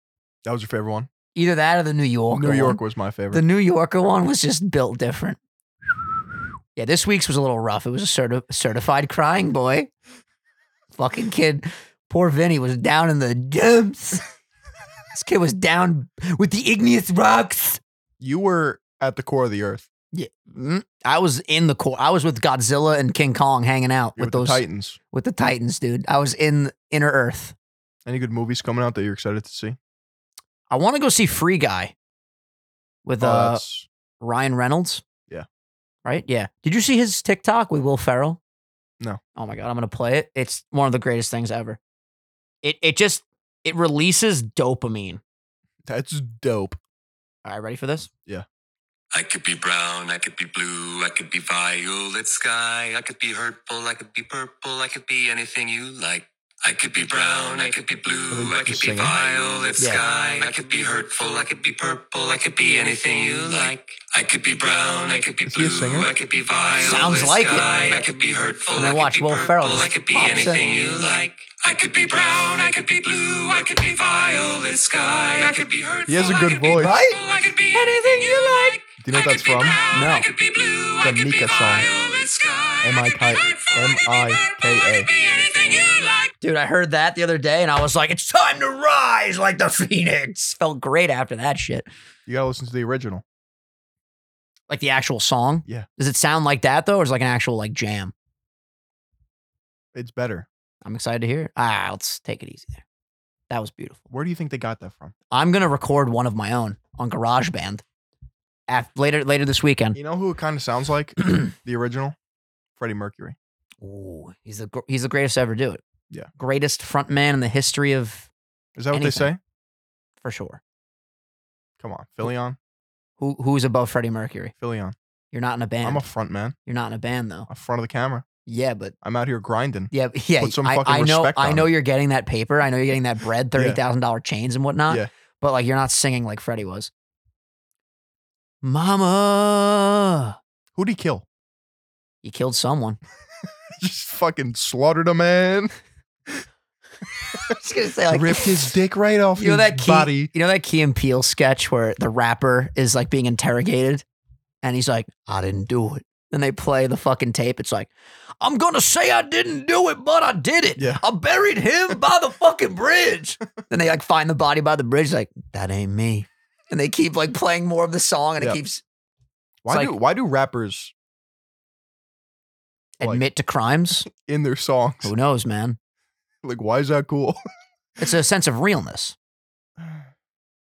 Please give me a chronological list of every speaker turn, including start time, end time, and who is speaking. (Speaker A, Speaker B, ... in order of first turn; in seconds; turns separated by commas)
Speaker A: 0.4-1.1, Speaker B: 1.3-2.8, Speaker A: 2.3-3.4, Speaker B: 3.3-5.4, Speaker B: 6.8-9.9, Speaker B: 10.9-14.2, Speaker B: 15.1-17.8, Speaker A: 18.2-19.9, Speaker B: 20.1-27.5, Speaker A: 24.1-25.0, Speaker A: 28.1-29.8, Speaker B: 30.7-31.9, Speaker B: 33.0-33.6, Speaker A: 33.2-33.9, Speaker B: 34.2-35.0, Speaker B: 36.0-38.4, Speaker B: 39.4-41.8, Speaker B: 42.6-45.2, Speaker A: 45.9-46.8, Speaker B: 47.4-48.1, Speaker C: 49.1-86.3, Speaker A: 58.3-59.2, Speaker B: 59.8-60.0, Speaker A: 65.4-66.1, Speaker B: 66.8-67.7, Speaker B: 68.7-70.6, Speaker A: 76.1-77.0, Speaker B: 76.7-77.2, Speaker B: 77.7-78.7, Speaker A: 79.0-79.8, Speaker B: 79.9-80.3, Speaker A: 81.0-81.9, Speaker A: 82.8-85.1, Speaker B: 85.5-91.8, Speaker A: 92.2-93.2, Speaker B: 94.7-98.1, Speaker A: 99.9-100.5, Speaker B: 100.8-102.8, Speaker B: 103.5-104.0, Speaker A: 104.1-105.1, Speaker B: 105.3-107.8, Speaker B: 108.7-110.0, Speaker A: 109.9-112.2, Speaker A: 112.8-113.4, Speaker B: 113.8-115.8, Speaker B: 116.4-118.3, Speaker A: 118.8-119.4, Speaker B: 118.9-119.3, Speaker B: 120.2-120.6, Speaker A: 121.8-122.6, Speaker B: 123.2-124.5, Speaker A: 124.6-124.9, Speaker B: 125.3-126.0, Speaker A: 125.8-126.5, Speaker B: 126.7-127.5, Speaker A: 127.5-128.2, Speaker B: 128.4-128.9, Speaker A: 129.0-131.7, Speaker B: 129.9-136.9, Speaker A: 133.5-133.8, Speaker B: 138.6-140.3, Speaker A: 140.7-141.2, Speaker B: 142.2-143.0, Speaker A: 143.8-145.7, Speaker B: 147.5-148.6, Speaker A: 148.1-150.3, Speaker B: 149.3-154.0, Speaker B: 154.6-168.8, Speaker A: 160.8-161.0, Speaker A: 169.6-170.9, Speaker B: 169.7-169.9, Speaker B: 173.0-174.1, Speaker A: 174.1-175.1, Speaker B: 175.0-175.8, Speaker A: 176.4-177.4, Speaker B: 178.0-179.2, Speaker A: 179.8-180.1